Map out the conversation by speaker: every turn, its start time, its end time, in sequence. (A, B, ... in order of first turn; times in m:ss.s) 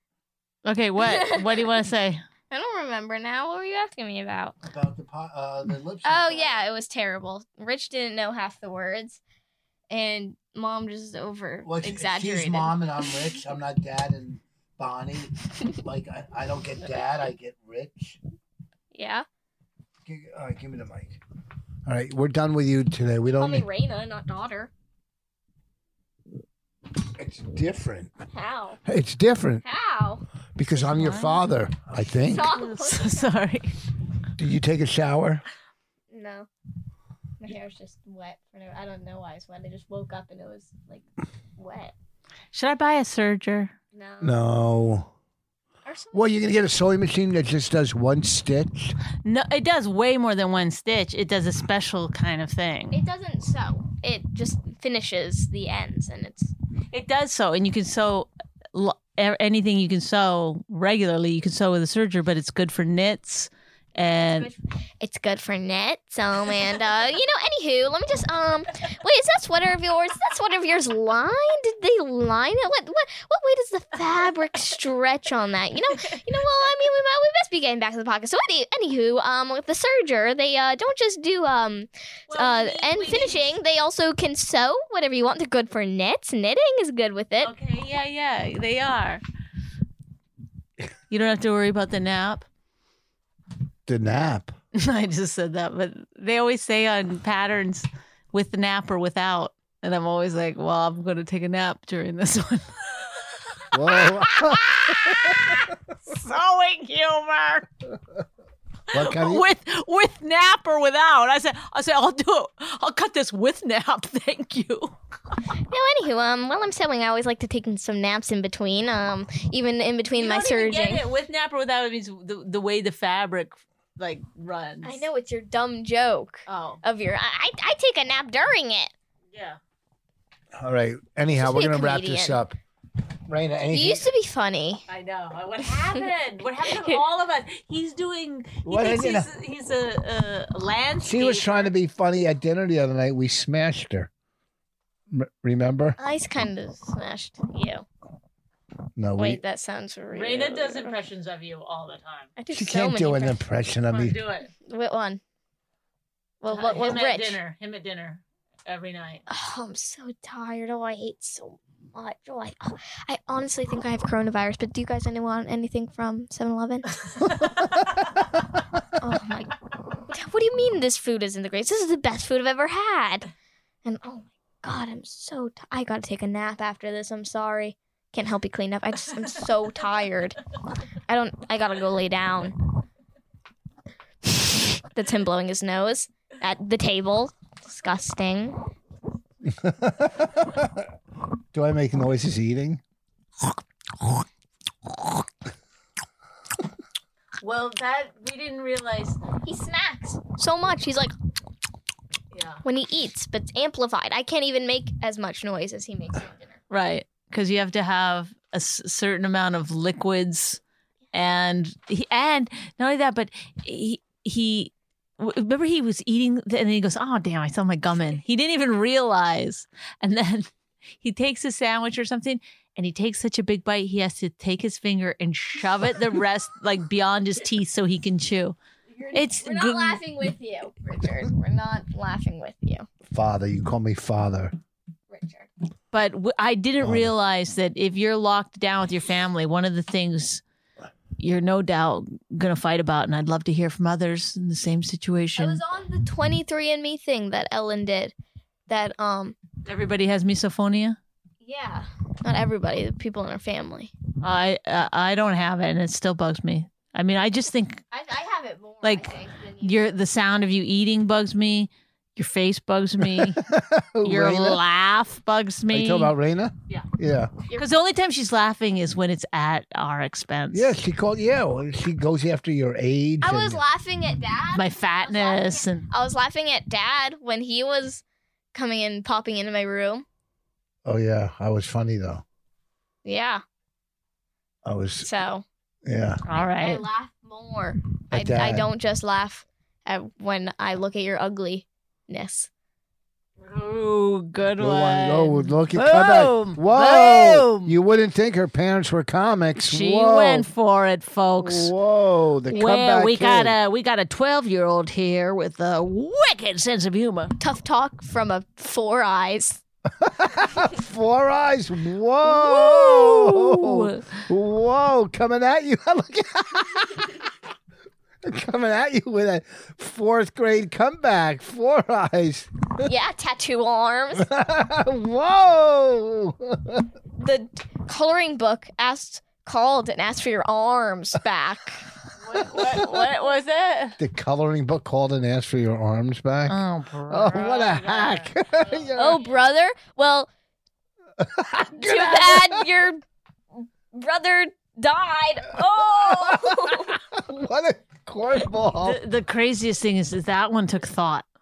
0:00.6-0:02.2 A
0:01.0-0:01.8 B
0:02.5-0:04.6 B
0:04.7-0:06.6 C
0:06.0-0:09.2 B
0:09.9-0:13.3 B
0:11.6-0:18.2 C
0:18.9-0:19.3 B
0:20.0-0:21.2 C
0:21.8-0:23.7 C
0:23.4-0:24.7 B
0:27.0-0:28.1 C
0:28.3-0:28.8 B
0:28.9-0:29.6 C
0:29.6-0:30.2 B
0:30.6-0:32.5 C
0:30.7-0:31.5 A
0:32.2-0:33.3 B
0:32.4-0:33.8 A
0:34.4-0:35.4 C
0:36.1-0:36.5 B
0:37.4-0:41.0 B
0:41.6-0:41.9 B
0:42.5-0:43.7 A
0:43.9-0:44.3 B
0:44.2-0:45.1 C
0:45.8-0:46.3 B
0:46.1-0:49.0 C
0:49.2-0:53.0 A
0:52.9-0:56.5 B
0:56.9-1:04.5 A
1:04.2-1:27.5 B
1:22.3-1:23.5 A
1:27.4-1:29.2 A
1:31.1-1:32.5 A
1:33.9-1:34.5 C
1:34.7-1:47.7 A
1:43.7-1:45.6 C
1:48.9-1:49.5 C
1:48.9-1:54.9 A
1:55.7-2:01.0 B
2:00.2-2:05.0 A
2:04.8-2:08.9 B
2:06.5-2:06.8 A
2:09.3-2:09.6 A
2:10.6-2:12.6 C
2:11.3-2:12.4 B
2:13.3-2:14.1 C
2:13.7-2:14.8 B
2:14.9-2:21.7 A
2:18.6-2:19.3 C
2:21.0-2:24.1 C
2:25.1-2:26.0 C
2:26.0-2:27.8 B
2:29.0-2:29.4 C
2:29.2-2:31.0 B
2:30.1-2:32.3 A
2:32.4-2:33.4 B
2:32.5-2:34.2 C
2:33.9-2:34.5 A
2:34.6-2:35.2 B
2:36.4-2:37.4 B
2:36.5-2:39.2 A
2:39.3-2:46.9 B
2:47.1-2:47.9 A
2:49.0-2:49.6 B
2:50.1-2:53.3 B
2:53.8-3:00.4 B
3:01.1-3:02.6 B
3:04.3-3:08.6 B
3:09.4-3:10.9 C
3:11.5-3:12.8 C
3:17.4-3:19.2 A
3:19.4-3:21.1 B
3:22.3-3:22.6 A
3:22.6-3:26.6 B
3:26.7-3:30.6 A
3:31.1-3:48.6 A
3:48.9-3:52.9 B
3:49.1-3:50.0 A
3:53.1-3:54.6 C
3:55.1-3:55.5 B
3:55.9-4:00.4 A
3:56.8-3:57.1 C
4:01.2-4:05.6 A
4:05.4-4:08.1 B
4:08.7-4:09.4 B
4:09.6-4:11.0 A
4:11.4-4:13.9 B
4:14.2-4:17.8 A
4:17.9-4:20.0 B
4:18.8-4:23.4 A
4:23.0-4:24.6 C
4:24.0-4:26.1 A
4:25.7-4:27.3 C
4:27.5-4:30.8 A
4:30.5-4:33.6 C
4:33.2-4:38.0 B
4:34.6-4:35.9 A
4:38.5-4:40.1 B
4:40.8-4:42.2 C
4:43.0-4:43.4 B
4:44.6-4:45.1 C
4:45.0-4:45.4 B
4:45.9-4:46.2 C
4:46.2-4:46.8 A
4:46.4-4:52.5 B
4:48.1-4:48.7 C
4:53.4-4:57.8 A
4:54.6-5:00.5 C
4:59.6-5:01.7 A
5:01.4-5:03.6 C
5:02.5-5:07.4 A
5:07.4-5:09.6 B
5:09.9-5:17.2 C
5:12.2-5:14.2 A
5:18.2-5:22.8 C
5:22.8-5:24.3 B
5:24.2-5:26.9 C
5:27.2-5:31.8 B
5:32.2-5:34.0 A
5:34.0-5:39.2 C
5:36.5-5:39.0 A
5:39.0-5:40.3 B
5:41.2-5:42.7 C
5:41.7-5:43.0 B
5:43.6-5:47.0 B
5:45.8-5:49.0 C
5:48.8-5:51.3 A